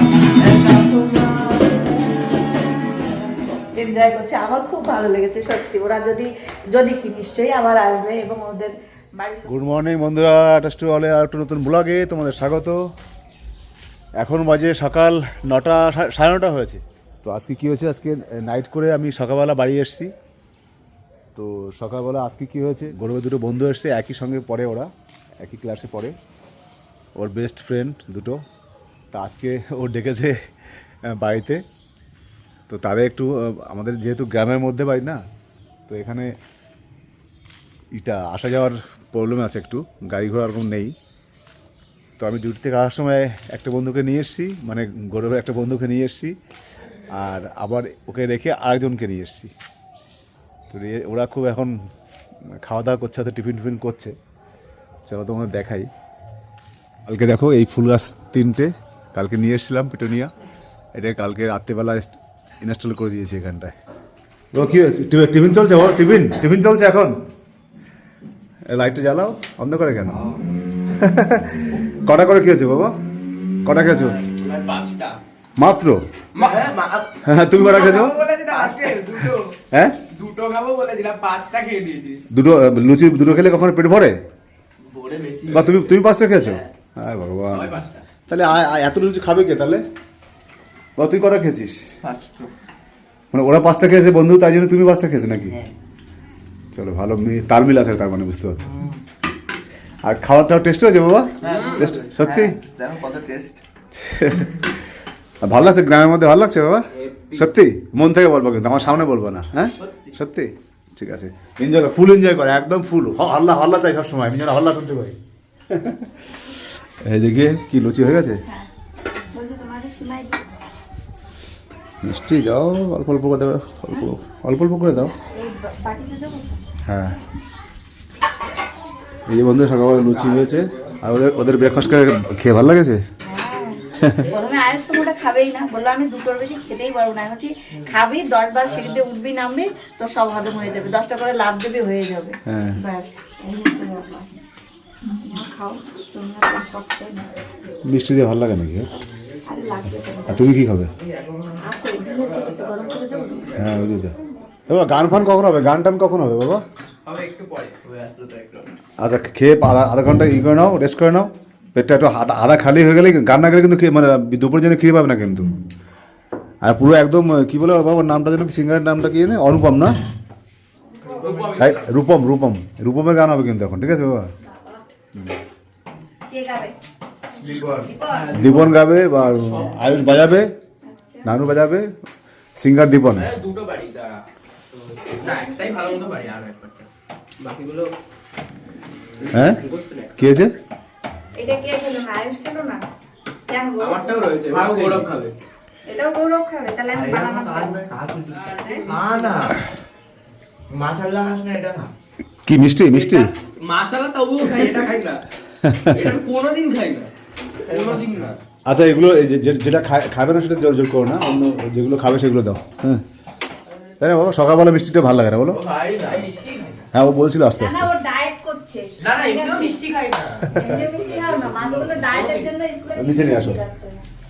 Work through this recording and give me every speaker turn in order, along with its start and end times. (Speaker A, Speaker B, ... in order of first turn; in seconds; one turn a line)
Speaker A: 0.4-2.5
Speaker B: 3.7-9.5
Speaker C: 9.5-12.8
Speaker C: 14.2-20.1
Speaker C: 21.3-26.1
Speaker C: 27.1-28.4
Speaker C: 29.1-30.3
Speaker C: 31.1-31.6
Speaker C: 32.7-35.2
Speaker C: 35.9-36.3
Speaker C: 37.9-40.9
Speaker C: 42.2-46.3
Speaker C: 47.1-49.5
Speaker C: 50.7-51.8
Speaker C: 52.5-54.1
Speaker C: 55.0-55.9
Speaker C: 57.0-60.3
Speaker C: 60.9-63.7
Speaker C: 64.5-67.2
Speaker C: 68.7-70.2
Speaker C: 70.9-73.0
Speaker C: 73.7-74.2
Speaker A: 74.2-75.2
Speaker C: 75.6-76.0
Speaker A: 76.3-79.4
Speaker D: 76.4-76.8
Speaker C: 77.2-78.2
Speaker D: 77.7-79.3
Speaker C: 79.7-80.0
Speaker A: 80.1-82.2
Speaker C: 82.3-84.2
Speaker A: 84.8-86.7
Speaker C: 85.5-87.7
Speaker A: 87.5-88.0
Speaker C: 88.3-89.8
Speaker C: 91.0-91.8
Speaker D: 92.0-92.5
Speaker C: 93.3-95.5
Speaker C: 96.7-98.7
Speaker D: 98.7-99.0
Speaker C: 100.0-102.6
Speaker A: 101.4-101.9
Speaker D: 101.4-103.6
Speaker C: 103.9-104.7
Speaker C: 105.4-115.2
Speaker A: 106.9-107.5
Speaker C: 115.7-116.2
Speaker C: 117.0-118.4
Speaker B: 119.3-120.4
Speaker C: 122.0-125.1
Speaker B: 125.3-126.6
Speaker C: 126.8-127.2
Speaker C: 129.3-133.0
Speaker B: 133.2-144.3
Speaker C: 142.5-142.8
Speaker B: 145.1-147.3
Speaker C: 147.8-149.0
Speaker B: 149.4-150.5
Speaker C: 150.3-150.9
Speaker D: 151.0-151.6
Speaker B: 151.6-153.6
Speaker C: 153.6-154.2
Speaker C: 154.7-156.6
Speaker A: 157.1-158.8
Speaker C: 159.0-165.6
Speaker C: 166.6-169.9
Speaker D: 171.1-171.6
Speaker A: 171.1-171.8
Speaker C: 171.6-174.3
Speaker B: 174.4-174.8
Speaker B: 176.3-176.7
Speaker D: 177.4-177.9
Speaker B: 177.5-178.4
Speaker A: 178.1-180.1
Speaker C: 178.3-180.5
Speaker B: 180.8-181.3
Speaker C: 181.2-181.9
Speaker C: 182.6-183.3
Speaker A: 183.1-184.2
Speaker A: 184.9-186.9
Speaker B: 185.2-186.0
Speaker A: 187.4-187.9
Speaker A: 189.0-190.3
Speaker C: 189.3-189.6
Speaker C: 190.2-190.5
Speaker B: 191.3-192.8
Speaker B: 193.5-194.9
Speaker A: 193.8-195.3
Speaker B: 195.9-197.8
Speaker D: 196.9-199.6
Speaker A: 198.3-199.4
Speaker D: 200.7-201.9
Speaker C: 202.4-203.3
Speaker A: 202.9-205.2
Speaker C: 205.6-206.1
Speaker A: 205.9-207.1
Speaker A: 207.6-208.4
Speaker D: 207.7-208.0
Speaker C: 208.7-213.0
Speaker C: 214.0-215.6
Speaker A: 215.5-216.9
Speaker C: 216.9-217.9
Speaker B: 217.6-219.8
Speaker A: 219.0-222.5
Speaker B: 220.5-224.0
Speaker C: 222.9-223.6